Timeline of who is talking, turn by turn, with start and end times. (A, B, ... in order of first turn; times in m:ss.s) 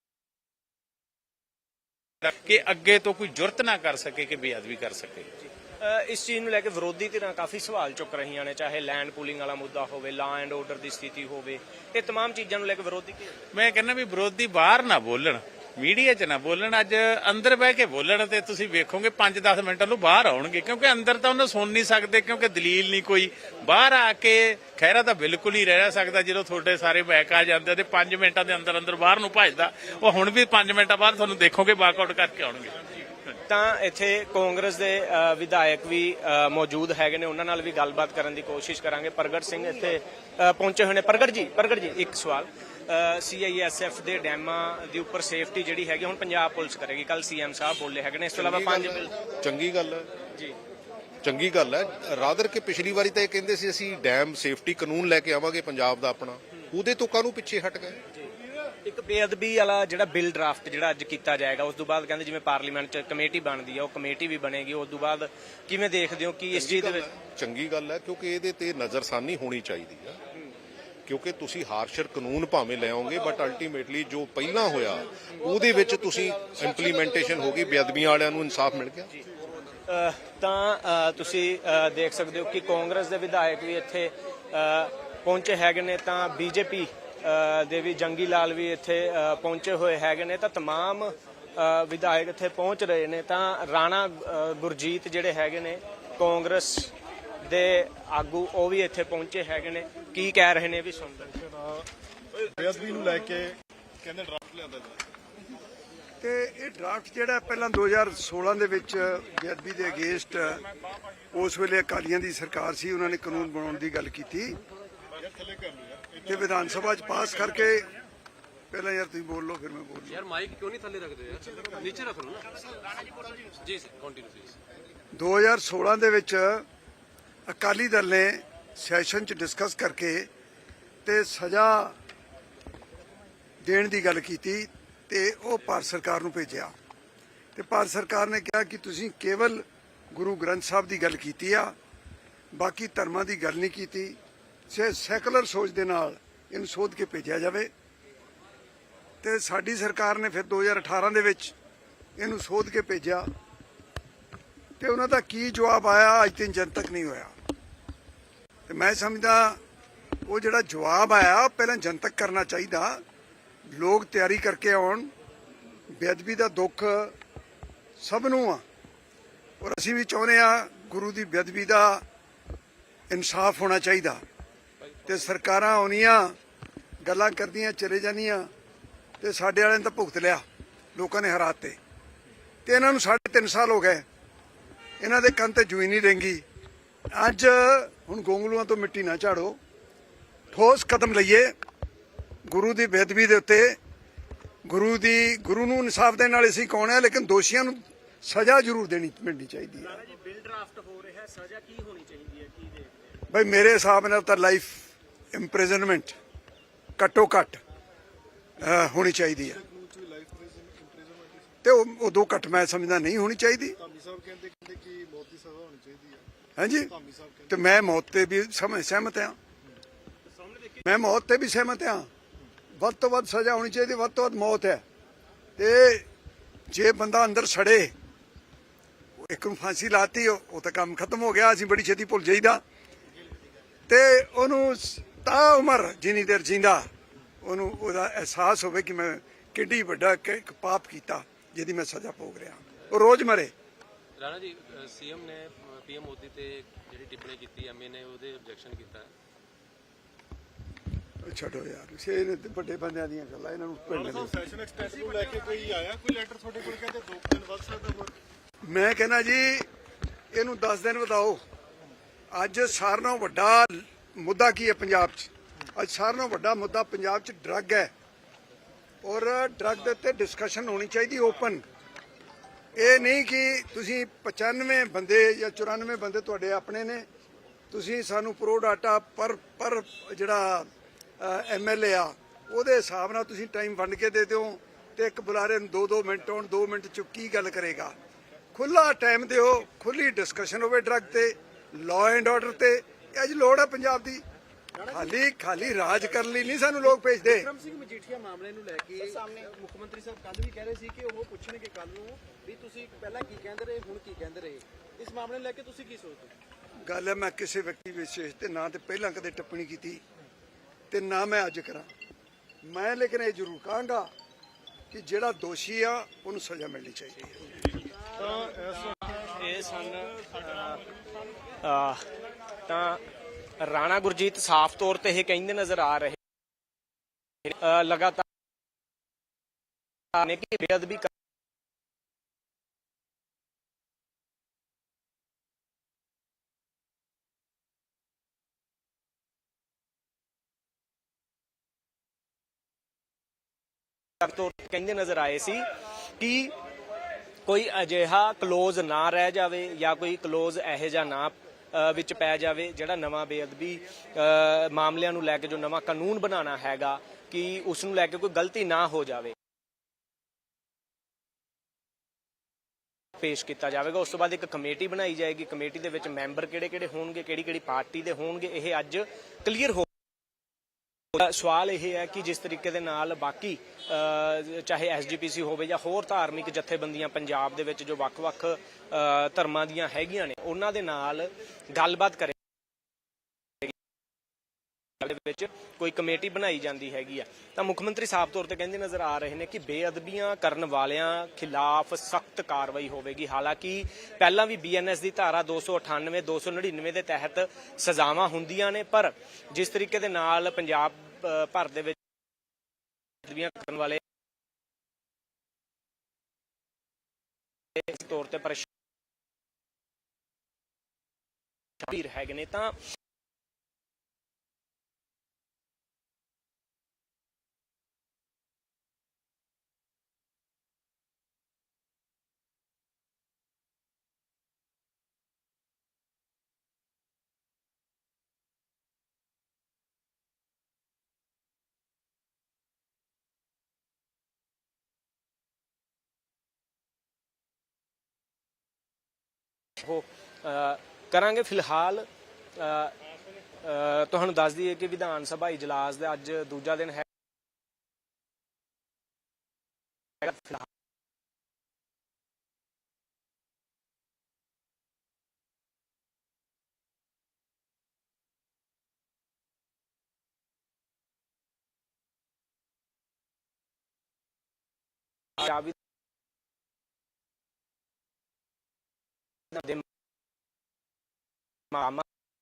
0:02.2-0:05.3 A
0:05.8-0:13.4 B
0:13.5-0:33.1 A
0:33.5-0:49.1 B
0:48.4-0:50.1 C
0:51.2-0:58.0 C
0:58.8-1:07.1 B
1:06.5-1:10.2 C
1:11.1-1:19.1 C
1:19.9-1:36.9 B
1:37.4-1:41.3 B
1:41.5-1:41.9 D
1:42.4-1:45.0 D
1:46.2-1:50.6 E
1:51.3-1:54.6 E
1:55.2-1:56.7 D
1:56.2-1:57.9 E
1:58.7-2:00.2 E
2:00.1-2:04.6 F
2:05.1-2:06.6 E
2:07.5-2:10.3 E
2:11.0-2:12.0 E
2:13.6-2:16.7 E
2:17.6-2:21.7 E
2:22.5-2:24.2 E
2:24.7-2:27.7 E
2:29.2-2:31.5 E
2:32.2-2:33.3 E
2:34.8-2:37.3 E
2:38.7-2:39.6 E
2:40.3-2:43.0 E
2:43.7-2:45.1 E
2:45.9-2:47.2 E
2:48.0-2:48.6 E
2:49.6-2:52.0 E
2:53.1-2:54.2 E
2:55.1-2:56.4 E
2:57.0-2:58.5 E
2:59.2-3:00.4 E
3:01.0-3:01.8 E
3:02.7-3:04.0 E
3:05.0-3:06.4 E
3:07.1-3:09.6 E
3:10.5-3:11.5 E
3:12.5-3:13.8 E
3:14.7-3:20.0 E
3:19.8-3:23.2 B
3:23.3-3:26.1 E
3:27.0-3:27.6 E
3:28.6-3:29.6 E
3:29.5-3:31.5 D
3:31.6-3:33.8 E
3:33.8-3:36.3 D
3:36.6-3:36.9 E
3:36.9-3:37.6 D
3:37.5-3:39.4 E
3:40.8-3:42.1 E
3:42.8-3:44.8 E
3:45.6-3:46.1 E
3:46.7-3:47.9 E
3:49.2-3:52.6 E
3:53.9-3:56.9 E
3:57.4-4:03.5 E
4:04.2-4:09.1 F
4:11.2-4:14.3 E
4:14.0-4:18.2 D
4:18.6-4:19.7 E
4:20.3-4:21.4 E
4:22.3-4:27.9 E
4:29.0-4:31.6 E
4:32.8-4:37.1 E
4:37.7-4:40.7 E
4:41.2-4:48.0 E
4:48.6-4:54.2 E
4:54.9-4:57.5 E
4:57.6-5:01.0 G
5:06.9-5:10.0 E
5:10.9-5:11.9 E
5:12.6-5:14.1 E
5:14.9-5:17.5 E
5:18.2-5:19.1 D
5:19.0-5:20.8 B
5:21.6-5:22.1 B
5:22.7-5:23.0 B
5:23.6-5:26.2 B
5:27.5-5:28.2 B
5:30.1-5:31.1 B
5:44.2-5:46.6 B
5:47.5-5:59.4 B
6:03.2-6:09.9 B
6:11.1-6:22.4 B
6:25.0-6:42.0 B
6:43.2-6:44.0 B
6:47.8-6:48.7 B
6:51.8-6:52.8 B
7:19.8-7:23.0 B
7:23.6-7:27.1 B
7:30.2-7:30.7 B
7:45.4-7:45.8 B
7:49.5-7:49.8 B
7:51.7-7:52.1 B